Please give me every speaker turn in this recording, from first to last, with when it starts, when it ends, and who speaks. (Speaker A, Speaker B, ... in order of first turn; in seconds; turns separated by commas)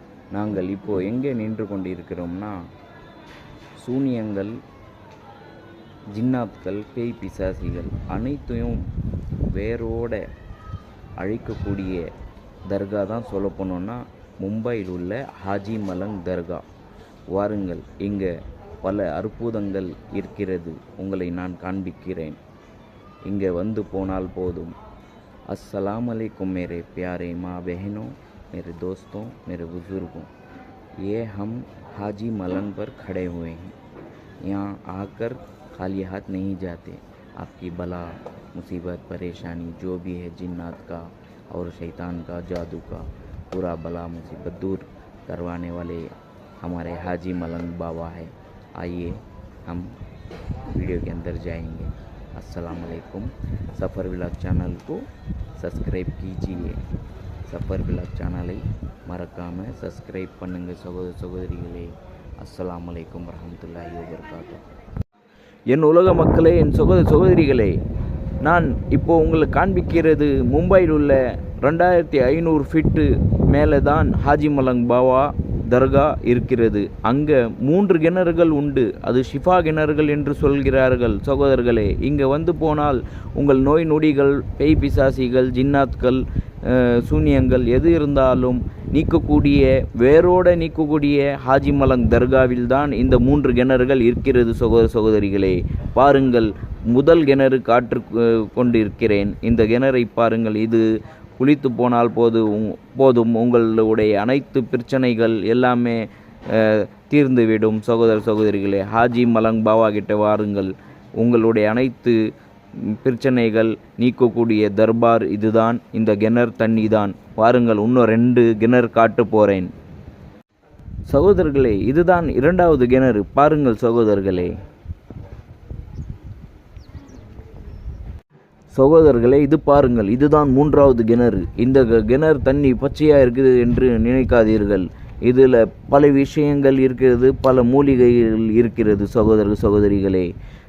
Speaker A: 0.3-2.6, Speaker A: 3.8-4.6, Speaker A: 6.1-8.9, Speaker A: 9.4-10.2, Speaker A: 11.2-12.1, Speaker A: 12.7-16.7, Speaker A: 17.3-18.3, Speaker A: 18.8-22.4, Speaker A: 23.3-24.8, Speaker A: 25.5-30.3, Speaker A: 31.0-33.8, Speaker A: 34.4-50.0, Speaker A: 50.7-55.1, Speaker A: 55.6-56.8, Speaker A: 57.5-64.6, Speaker A: 65.7-67.8, Speaker A: 68.4-100.8, Speaker A: 101.4-112.2, Speaker A: 112.8-119.7, Speaker A: 121.1-124.6, Speaker A: 128.7-140.3